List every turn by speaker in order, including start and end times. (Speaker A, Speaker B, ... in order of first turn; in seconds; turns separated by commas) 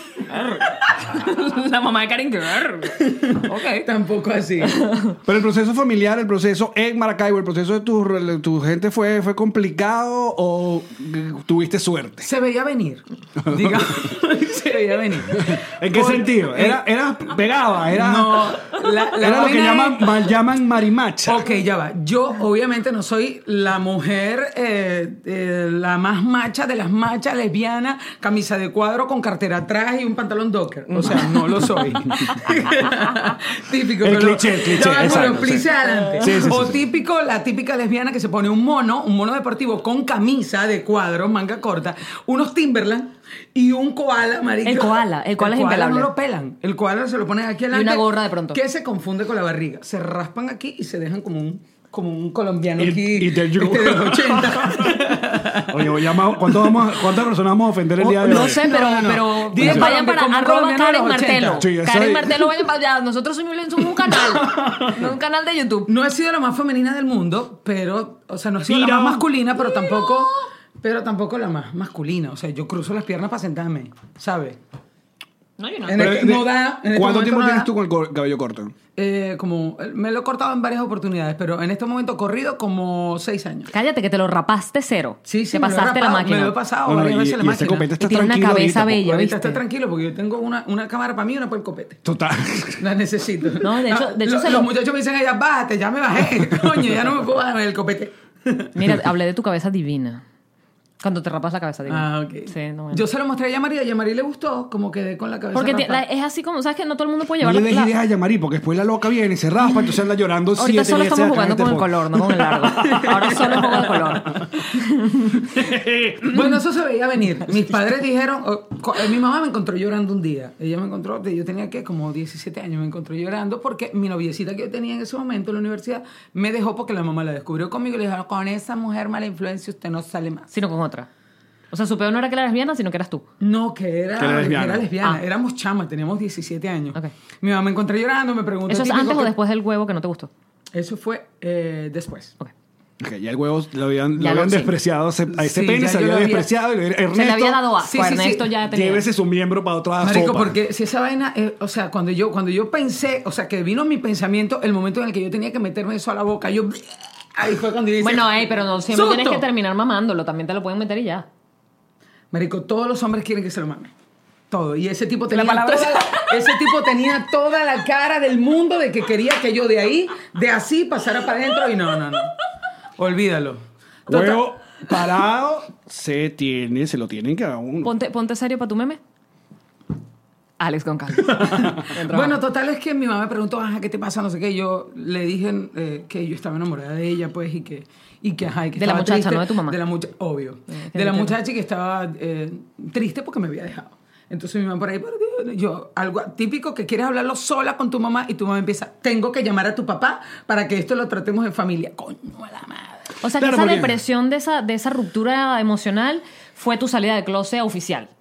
Speaker A: 0.3-3.9, Speaker B: 3.0-4.8, Speaker A: 4.7-5.1, Speaker C: 5.2-12.3, Speaker B: 12.2-16.8, Speaker C: 13.4-14.2, Speaker C: 15.3-18.6, Speaker B: 17.9-20.3, Speaker C: 19.2-21.5, Speaker B: 21.2-57.0, Speaker A: 30.9-31.2, Speaker C: 31.0-32.4, Speaker C: 34.0-36.8, Speaker A: 35.8-36.5, Speaker A: 44.6-46.1, Speaker A: 47.7-48.6, Speaker C: 52.8-55.1, Speaker C: 55.7-58.9, Speaker A: 58.0-65.9, Speaker B: 58.1-61.7, Speaker C: 59.5-59.9, Speaker C: 61.6-62.6, Speaker C: 64.0-65.1, Speaker B: 65.9-74.6, Speaker C: 68.7-69.3, Speaker A: 69.6-70.4, Speaker A: 75.6-76.0, Speaker B: 75.9-77.7, Speaker C: 75.9-78.7, Speaker B: 79.0-83.7, Speaker A: 83.7-86.5, Speaker B: 85.3-87.9, Speaker C: 86.8-89.0, Speaker A: 88.0-89.6, Speaker B: 88.9-92.0, Speaker C: 92.0-92.8, Speaker B: 92.8-98.7, Speaker A: 93.6-94.7, Speaker C: 96.4-96.9, Speaker A: 98.7-100.2, Speaker A: 101.0-103.0, Speaker B: 101.9-106.0, Speaker A: 105.5-107.9, Speaker C: 107.4-113.4, Speaker A: 110.5-115.3, Speaker B: 112.8-114.0, Speaker C: 115.4-116.5, Speaker B: 116.3-130.5, Speaker A: 130.5-131.1, Speaker A: 131.7-133.2, Speaker B: 133.4-139.3, Speaker C: 134.2-134.9, Speaker A: 138.7-140.3, Speaker B: 140.7-142.3, Speaker C: 143.0-147.6, Speaker A: 144.2-144.7, Speaker B: 145.3-146.5, Speaker A: 147.1-149.1, Speaker B: 147.8-148.5, Speaker C: 148.6-150.6, Speaker B: 150.0-159.4, Speaker A: 158.0-161.3, Speaker B: 162.3-163.9, Speaker B: 164.5-172.3, Speaker A: 165.3-166.7, Speaker B: 173.0-174.5, Speaker C: 174.1-177.9, Speaker A: 177.8-179.0, Speaker A: 180.6-182.4, Speaker C: 181.3-181.8, Speaker B: 181.8-203.1, Speaker A: 188.8-189.8, Speaker A: 190.7-191.3, Speaker A: 203.2-208.1, Speaker C: 203.4-203.9